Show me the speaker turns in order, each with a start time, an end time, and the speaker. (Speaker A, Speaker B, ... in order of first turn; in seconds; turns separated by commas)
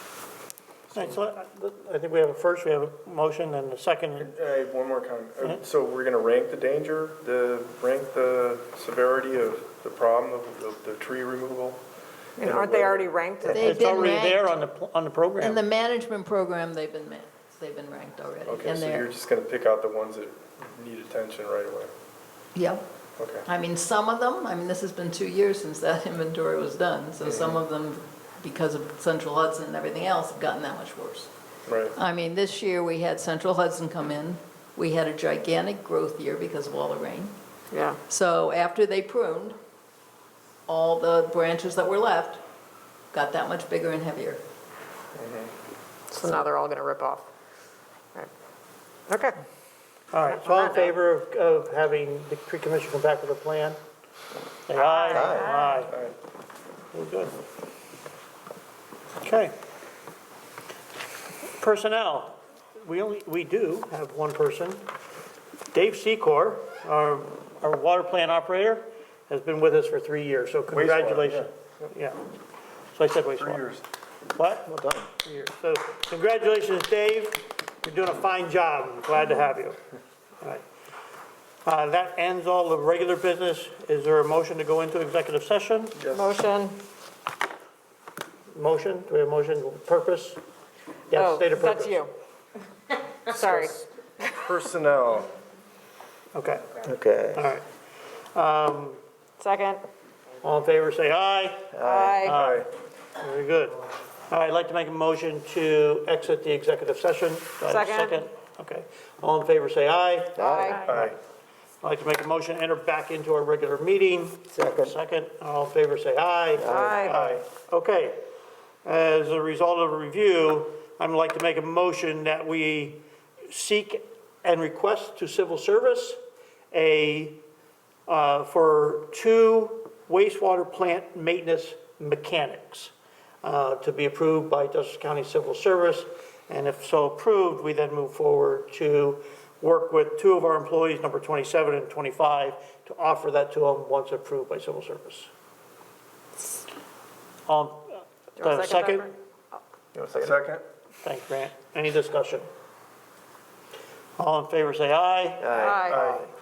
Speaker A: 0.9-4.3, Speaker B: 4.2-11.8, Speaker C: 12.4-14.1, Speaker B: 12.4-13.2, Speaker A: 13.4-15.6, Speaker D: 13.5-14.6, Speaker D: 15.4-19.1, Speaker B: 18.5-21.9, Speaker D: 22.6-22.8, Speaker B: 23.2-23.4, Speaker D: 23.5-31.3, Speaker B: 27.2-27.6, Speaker B: 31.7-31.9, Speaker D: 31.9-37.4, Speaker C: 37.7-38.0, Speaker D: 38.1-39.6, Speaker D: 40.7-42.4, Speaker D: 43.1-44.4, Speaker B: 45.2-45.5, Speaker C: 46.1-47.3, Speaker C: 49.1-49.4, Speaker A: 50.1-53.8, Speaker C: 50.3-51.0, Speaker A: 54.7-56.0, Speaker C: 54.8-55.9, Speaker E: 55.1-55.5, Speaker B: 55.9-56.1, Speaker A: 56.9-57.3, Speaker A: 59.2-59.5, Speaker A: 61.6-64.8, Speaker A: 65.7-72.2, Speaker B: 70.7-71.5, Speaker A: 72.9-73.7, Speaker B: 73.3-73.8, Speaker A: 74.3-79.8, Speaker E: 74.7-75.1, Speaker A: 81.7-86.0, Speaker B: 86.0-86.3, Speaker C: 86.1-86.8, Speaker A: 88.5-90.4, Speaker A: 91.1-92.0, Speaker C: 91.1-92.1, Speaker C: 93.3-94.3, Speaker B: 93.4-93.7, Speaker B: 94.3-95.3, Speaker A: 96.3-96.8, Speaker E: 96.8-97.5, Speaker A: 97.3-97.7, Speaker A: 98.3-99.0, Speaker C: 99.4-99.8, Speaker A: 100.4-102.7, Speaker E: 101.8-102.2, Speaker C: 101.8-102.4, Speaker B: 102.3-102.7, Speaker A: 103.2-103.8, Speaker A: 104.3-111.1, Speaker C: 107.7-108.2, Speaker E: 110.4-110.9, Speaker C: 110.4-110.9, Speaker B: 110.8-111.2, Speaker A: 111.8-118.2, Speaker E: 114.5-115.0, Speaker E: 116.6-117.1, Speaker C: 116.7-117.2, Speaker B: 117.1-117.5, Speaker A: 118.8-126.2, Speaker A: 126.7-127.4, Speaker A: 128.1-145.3, Speaker A: 147.5-149.1, Speaker C: 148.4-149.1, Speaker B: 150.0-150.6, Speaker E: 150.1-150.3, Speaker A: 151.0-152.5, Speaker A: 154.2-155.6, Speaker E: 155.4-156.3, Speaker C: 155.5-156.1, Speaker B: 155.9-156.3